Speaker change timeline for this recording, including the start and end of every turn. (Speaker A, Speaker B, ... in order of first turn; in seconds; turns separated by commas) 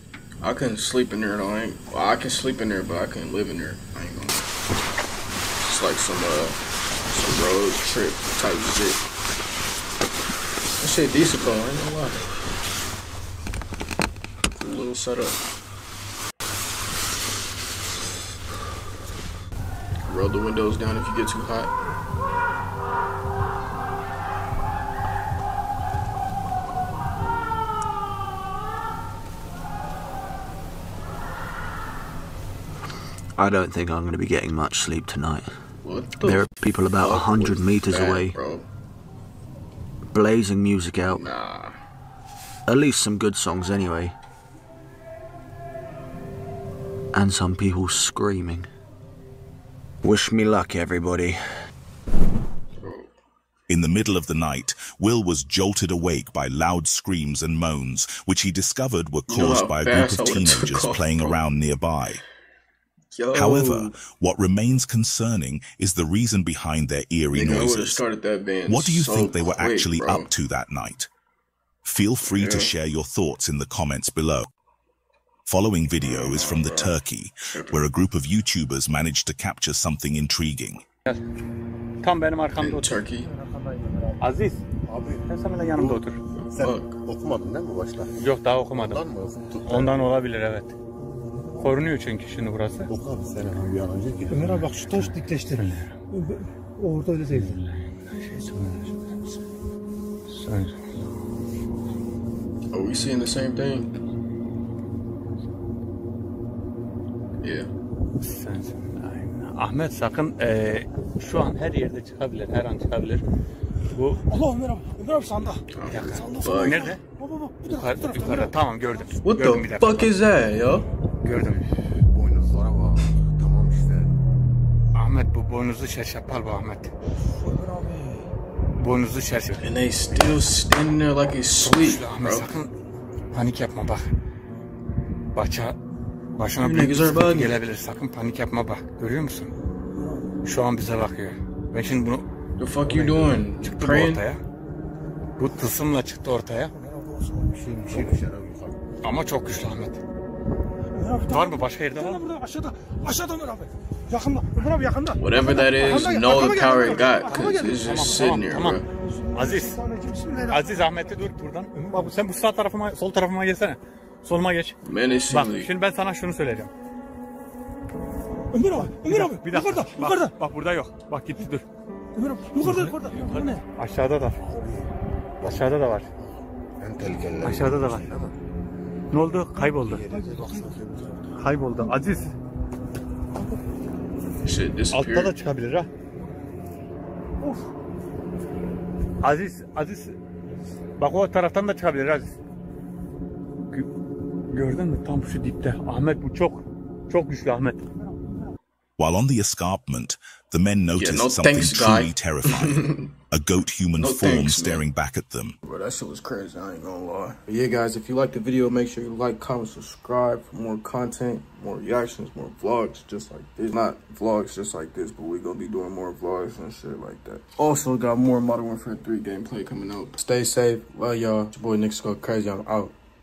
Speaker A: 0.4-4.5, Speaker A: 5.6-9.1, Speaker A: 10.8-12.3, Speaker A: 14.5-15.4, Speaker A: 20.0-21.7, Speaker B: 33.4-35.5, Speaker A: 35.8-38.6, Speaker B: 36.2-38.4, Speaker B: 40.1-41.3, Speaker A: 41.0-41.8, Speaker B: 42.7-44.1, Speaker B: 47.1-48.7, Speaker B: 50.0-51.6, Speaker A: 52.8-53.1, Speaker C: 53.7-62.2, Speaker A: 59.3-61.4, Speaker A: 63.1-64.0, Speaker C: 63.3-68.0, Speaker A: 67.3-70.3, Speaker C: 68.7-71.1, Speaker C: 71.8-74.5, Speaker A: 72.2-72.7, Speaker C: 75.5-80.8, Speaker A: 76.0-76.9, Speaker A: 77.5-77.8, Speaker D: 82.0-83.0, Speaker A: 82.6-83.3, Speaker D: 84.2-84.6, Speaker E: 84.9-85.2, Speaker D: 85.2-86.2, Speaker A: 86.5-87.0, Speaker E: 86.6-88.1, Speaker D: 88.2-89.1, Speaker E: 88.8-89.9, Speaker D: 89.7-90.7, Speaker D: 91.6-92.9, Speaker E: 92.9-94.8, Speaker F: 94.4-95.1, Speaker D: 94.5-95.9, Speaker F: 96.8-97.5, Speaker D: 97.3-99.1, Speaker D: 100.3-100.7, Speaker A: 102.7-103.9, Speaker A: 107.4-107.7, Speaker D: 108.2-113.2, Speaker D: 113.9-114.2, Speaker F: 114.3-115.6, Speaker A: 115.7-116.9, Speaker D: 115.9-117.0, Speaker F: 116.2-116.8, Speaker F: 117.4-118.5, Speaker D: 117.7-120.1, Speaker A: 119.2-120.9, Speaker D: 121.2-121.7, Speaker E: 122.1-124.1, Speaker D: 124.9-126.9, Speaker D: 128.8-129.6, Speaker A: 129.6-132.5, Speaker D: 131.6-132.7, Speaker D: 133.3-134.1, Speaker D: 135.3-135.8, Speaker D: 136.3-139.5, Speaker A: 136.6-137.6, Speaker D: 140.4-142.3, Speaker A: 142.6-144.2, Speaker D: 142.8-144.4, Speaker D: 145.4-146.7, Speaker E: 147.3-148.7, Speaker D: 149.0-150.0, Speaker F: 151.0-155.1, Speaker D: 151.3-152.2, Speaker A: 155.2-158.8, Speaker F: 155.9-157.7, Speaker D: 157.3-158.8, Speaker F: 159.3-160.9, Speaker D: 159.3-159.8, Speaker D: 160.5-164.8, Speaker A: 164.8-165.7, Speaker D: 165.3-166.7, Speaker F: 168.5-170.3, Speaker D: 168.7-171.6, Speaker F: 172.2-173.6, Speaker D: 172.6-174.5, Speaker D: 175.4-176.1, Speaker E: 176.8-178.3, Speaker D: 177.4-178.1, Speaker D: 179.1-180.0, Speaker E: 179.8-181.2, Speaker F: 180.1-180.6, Speaker D: 181.4-182.3, Speaker A: 184.4-185.3, Speaker D: 184.9-185.9, Speaker D: 189.2-190.2, Speaker D: 191.0-192.3, Speaker D: 194.5-197.8, Speaker C: 199.0-205.6, Speaker A: 200.9-203.1, Speaker A: 204.0-204.8, Speaker A: 205.6-222.9